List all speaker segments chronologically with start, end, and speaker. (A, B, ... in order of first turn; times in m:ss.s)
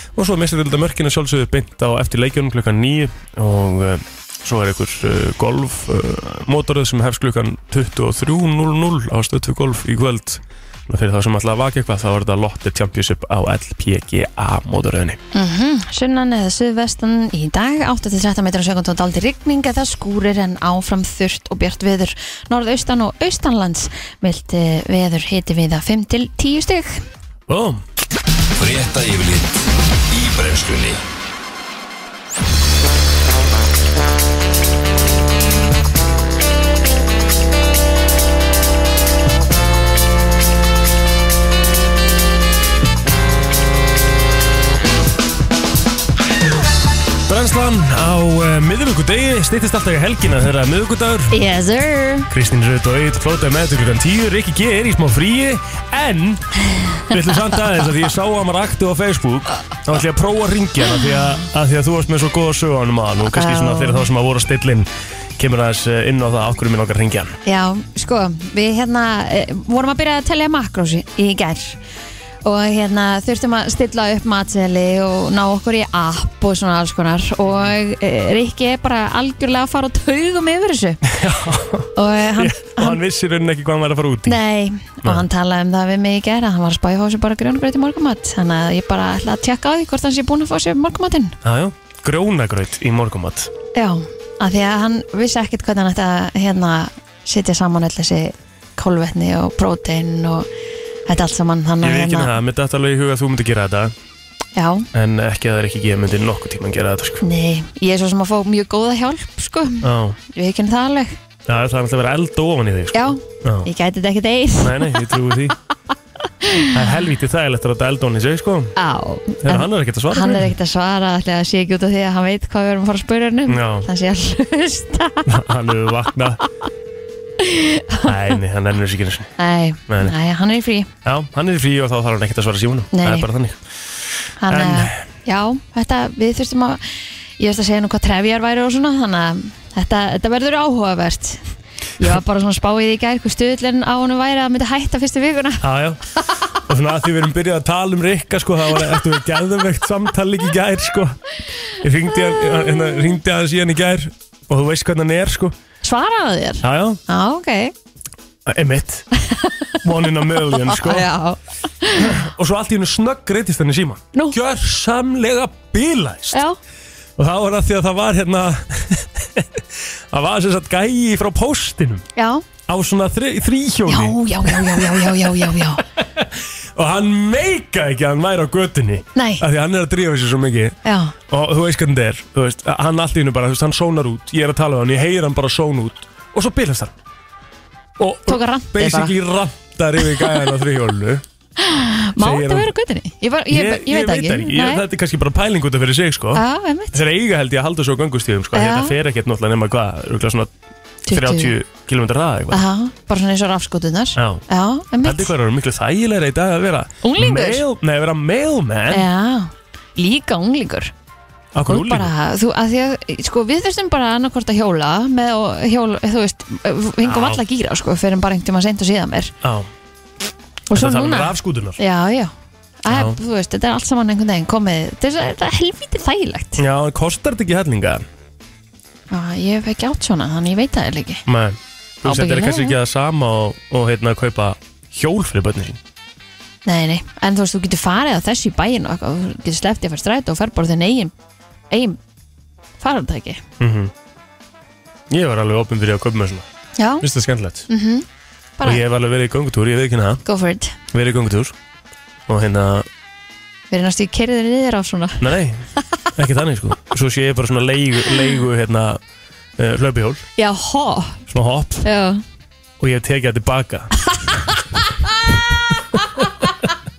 0:00.1-0:15.2 A
0:15.3-0:27.0 B
0:27.5-0:27.8 A
0:28.6-0:29.6 C
0:30.1-0:31.0 C
0:47.3-0:51.4 A
0:51.3-0:52.3 B
0:52.3-1:07.3 A
1:03.3-1:04.1 B
1:07.4-1:11.8 B
1:12.4-1:21.0 B
1:21.1-1:24.4 A
1:21.9-1:23.0 B
1:24.2-1:31.4 B
1:31.4-1:33.5 A
1:33.7-1:40.5 B
1:41.1-1:42.3 B
1:41.8-1:43.9 A
1:44.6-1:44.9 B
1:44.9-1:47.2 A
1:47.2-1:51.2 B
1:49.8-1:50.2 A
1:51.5-1:53.7 A
1:52.9-1:55.1 B
1:54.6-1:55.6 A
1:56.4-1:56.7 B
1:56.7-1:58.7 A
1:58.8-2:05.3 B
1:59.4-2:00.5 A
2:03.5-2:03.9 A
2:05.2-2:06.4 A
2:07.4-2:08.1 B
2:08.0-2:09.3 A
2:09.4-2:10.9 B
2:09.9-2:10.1 A
2:11.0-2:13.6 A
2:12.9-2:13.3 B
2:14.4-2:16.8 B
2:14.5-2:15.0 A
2:17.4-2:21.4 B
2:22.0-2:25.6 B
2:25.6-2:26.0 A
2:26.6-2:31.2 A
2:31.8-2:35.5 A
2:32.4-2:33.1 B
2:35.8-2:37.7 B
2:36.6-2:37.0 A
2:38.4-2:39.0 A
2:39.1-2:39.7 B
2:39.8-2:41.1 A
2:40.4-2:42.2 B
2:41.9-2:46.4 A
2:47.2-2:52.0 A
2:52.2-2:52.4 B
2:52.7-3:00.8 A
2:53.9-2:55.8 B
2:59.1-2:59.4 B
3:00.8-3:01.1 B
3:01.3-3:06.9 A
3:08.0-3:11.2 A
3:08.3-3:09.1 B
3:10.1-3:10.4 B
3:11.6-3:14.8 B
3:12.2-3:12.7 A
3:13.5-3:20.5 A
3:16.3-3:17.0 B
3:18.5-3:19.0 B
3:21.1-3:21.5 B
3:21.1-3:22.6 A
3:22.5-3:25.3 B
3:24.2-3:24.4 A
3:25.0-3:29.0 A
3:27.0-3:27.6 B
3:28.9-3:30.9 B
3:31.5-3:32.1 A
3:31.7-3:39.3 B
3:37.0-3:37.4 A
3:39.4-3:39.7 A
3:40.7-3:42.3 B
3:40.7-3:41.8 A
3:42.8-3:46.6 B
3:42.9-3:43.2 A
3:46.6-3:48.0 A
3:49.1-3:51.2 B
3:51.2-3:55.8 A
3:52.0-3:52.8 B
3:56.6-4:01.1 B
4:01.7-4:02.0 B
4:02.8-4:03.4 B
4:03.6-4:03.9 A
4:05.1-4:06.4 A
4:06.8-4:07.0 B
4:07.0-4:07.7 A
4:07.7-4:08.0 B
4:08.6-4:08.8 B
4:08.6-4:10.2 A
4:10.2-4:10.8 B
4:10.9-4:11.5 A
4:12.3-4:12.9 A
4:13.7-4:15.2 B
4:15.2-4:15.6 A
4:16.2-4:19.0 A
4:19.6-4:20.2 A
4:20.4-4:21.2 B
4:21.3-4:21.9 A
4:21.8-4:22.2 B
4:22.8-4:23.9 A
4:24.8-4:25.1 B
4:25.9-4:26.2 B